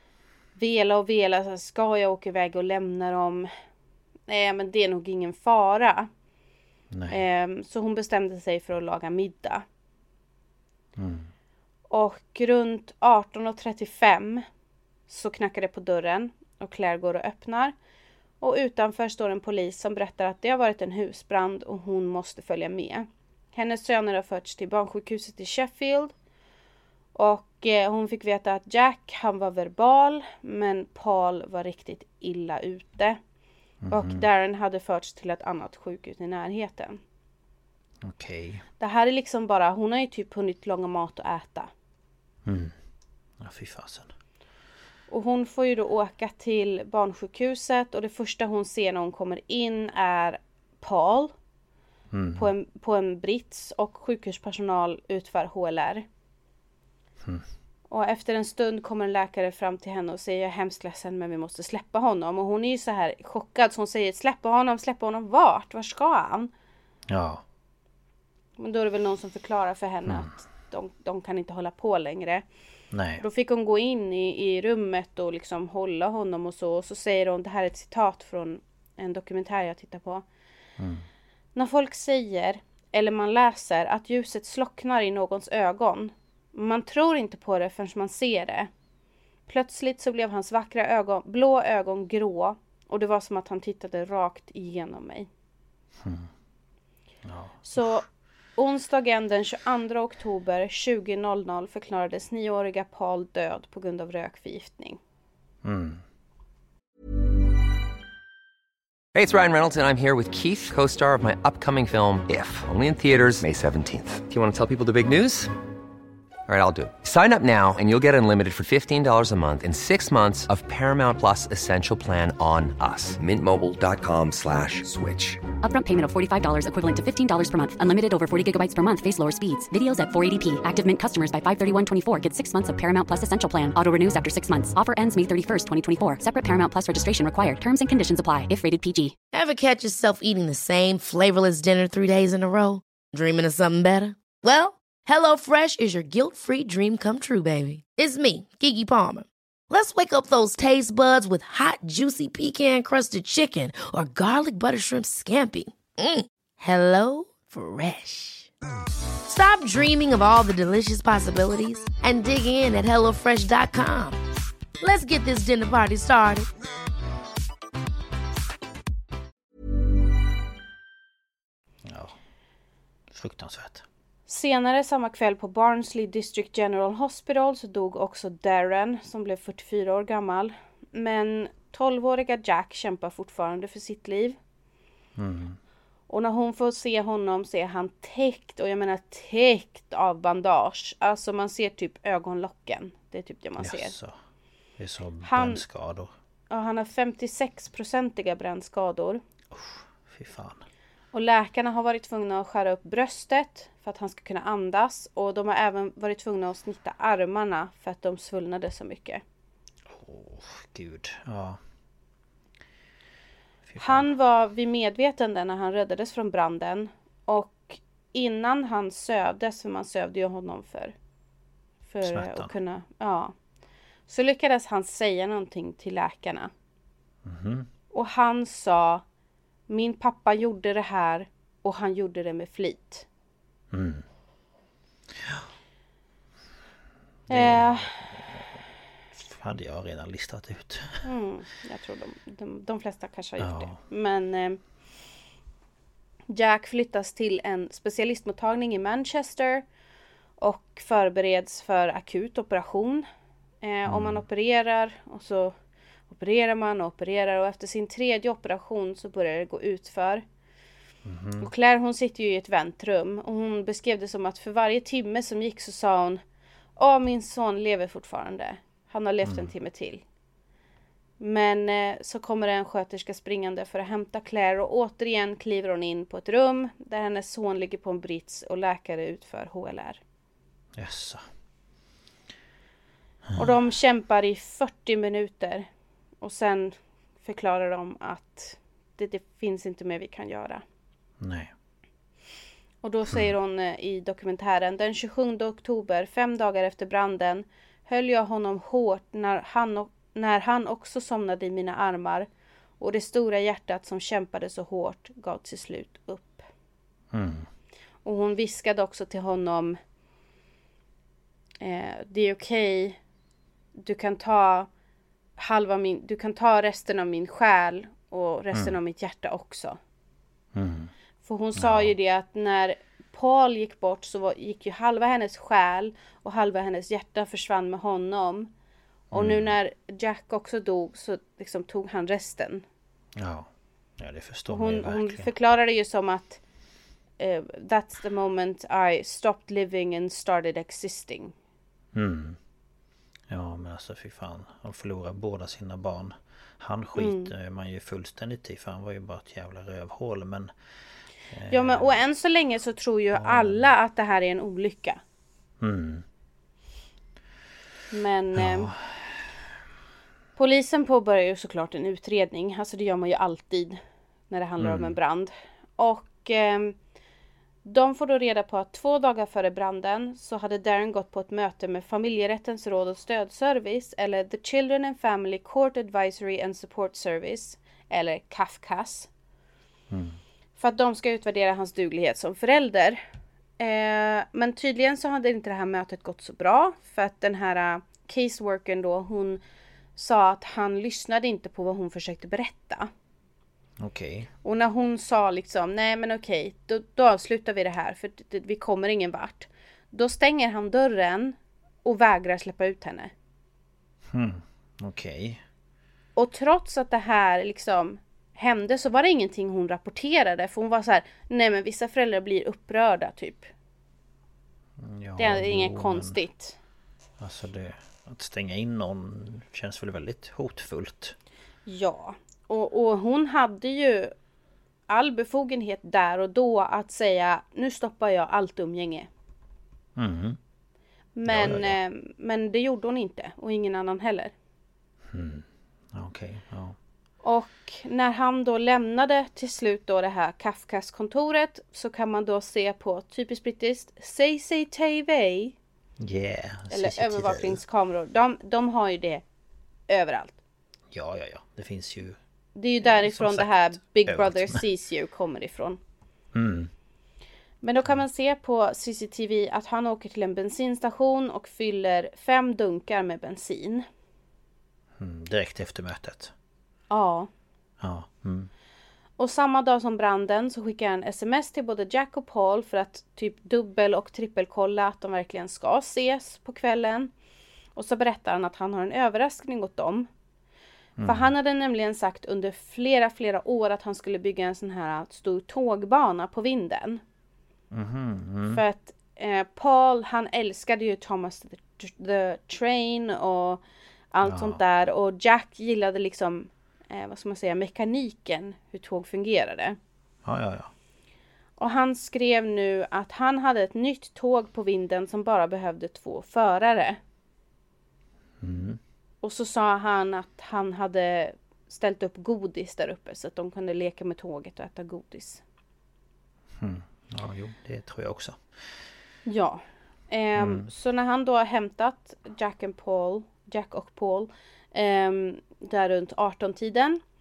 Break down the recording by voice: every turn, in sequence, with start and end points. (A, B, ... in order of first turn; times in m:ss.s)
0:00.6-0:03.5 A
0:04.3-0:06.1 A
0:06.9-0:07.2 B
0:07.1-0:09.6 A
0:11.0-0:11.3 B
0:11.9-0:14.4 A
0:15.1-0:17.7 A
0:18.4-0:26.1 A
0:27.1-0:33.2 A
0:33.8-0:34.2 B
0:33.9-0:37.0 A
0:38.0-0:38.6 B
0:38.8-0:41.7 A
0:42.4-0:42.8 B
0:43.4-0:44.1 B
0:45.1-0:51.3 A
0:52.1-0:52.5 B
0:52.3-0:56.0 A
0:57.9-1:06.5 A
1:07.1-1:07.4 B
1:08.6-1:12.4 A
1:10.0-1:10.3 B
1:12.9-1:13.2 B
1:13.2-1:20.2 A
1:20.8-1:21.0 B
1:21.5-1:28.7 A
1:29.5-1:35.3 A
1:36.0-1:36.3 B
1:37.2-1:38.0 B
1:37.6-1:38.0 A
1:38.6-1:45.0 A
1:45.6-1:46.0 B
1:49.1-1:55.5 C
1:56.5-2:05.4 C
2:05.6-2:19.1 D
2:19.3-2:38.5 E
2:39.2-2:44.2 E
2:44.8-2:46.5 E
2:51.8-2:52.2 B
2:53.1-2:53.8 B
2:54.3-3:04.4 A
3:05.2-3:05.6 B
3:06.1-3:13.9 A
3:13.6-3:14.2 B
3:14.8-3:16.1 B
3:15.2-3:15.6 A
3:16.5-3:19.2 A
3:19.5-3:20.6 B
3:21.1-3:29.2 A
3:29.9-3:31.6 B
3:33.6-3:34.1 B
3:33.8-3:40.9 A
3:41.9-3:43.3 A
3:42.0-3:42.5 B
3:44.1-3:46.5 A
3:47.2-3:47.7 B
3:47.9-3:49.0 A
3:49.7-3:53.0 A
3:53.7-3:54.1 B
3:55.1-3:55.5 B
3:57.3-3:58.6 B
3:57.3-3:57.9 A
3:59.1-4:01.1 B
4:01.0-4:04.6 A
4:03.4-4:03.8 B
4:06.3-4:09.6 A
4:10.4-4:13.0 A
4:13.6-4:15.6 A
4:13.8-4:14.2 B
4:16.1-4:20.2 A
4:21.0-4:21.5 B
4:21.4-4:26.2 A
4:26.8-4:30.0 A
4:29.2-4:29.5 B
4:31.2-4:40.0 A
4:40.7-4:41.2 B
4:43.3-4:43.5 B
4:43.3-4:45.7 A
4:46.2-4:50.6 A
4:51.2-4:51.5 B
4:52.8-5:02.3 A
5:02.8-5:06.5 A
5:07.1-5:07.5 B
5:08.0-5:09.8 A
5:11.6-5:13.0 A
5:13.8-5:14.7 A
5:15.4-5:19.8 A
5:20.5-5:20.9 B
5:21.2-5:28.5 A
5:21.6-5:21.9 B
5:29.1-5:29.5 B
5:29.1-5:32.6 A
5:33.2-5:35.3 B
5:34.5-5:36.4 A
5:37.2-5:41.3 A
5:41.9-5:42.4 B
5:43.3-5:50.5 B
5:47.0-5:47.3 A
5:51.3-5:51.9 B
5:51.5-5:55.0 A
5:53.1-5:53.7 B
5:55.6-5:56.0 B
5:57.9-5:58.7 A
5:58.3-5:59.3 B
6:00.4-6:03.8 A
6:04.3-6:06.8 A
6:04.6-6:05.0 B
6:07.6-6:19.1 A
6:19.9-6:20.2 B
6:20.6-6:23.0 A
6:23.6-6:29.4 A
6:30.0-6:32.9 A
6:33.8-6:34.3 B
6:34.4-6:43.1 A
6:44.1-6:45.4 B
6:46.2-6:53.5 A
6:54.8-6:56.2 B
6:55.2-6:56.6 A
6:57.2-7:01.2 B
7:01.6-7:04.1 A
7:04.9-7:09.1 A
7:10.0-7:10.4 B
7:11.2-7:14.3 A
7:11.2-7:11.8 B
7:15.1-7:16.8 B
7:17.2-7:25.5 A
7:26.0-7:27.6 B
7:26.7-7:29.2 A
7:29.9-7:30.4 A
7:30.9-7:32.2 B
7:32.5-7:35.8 A
7:32.8-7:34.6 B
7:36.3-7:36.7 B
7:37.6-7:43.8 A
7:45.0-7:46.3 B
7:46.9-7:47.3 A
7:47.8-7:48.5 B
7:49.2-7:57.1 A
7:57.8-8:00.1 A
8:01.0-8:01.3 B
8:01.0-8:07.0 A
8:07.7-8:08.6 B
8:08.5-8:19.8 A
8:14.2-8:14.6 B
8:20.2-8:20.7 B
8:21.6-8:27.0 A
8:28.4-8:28.8 B
8:29.2-8:35.4 A
8:36.6-8:38.8 B
8:39.2-8:47.0 A
8:40.4-8:40.7 B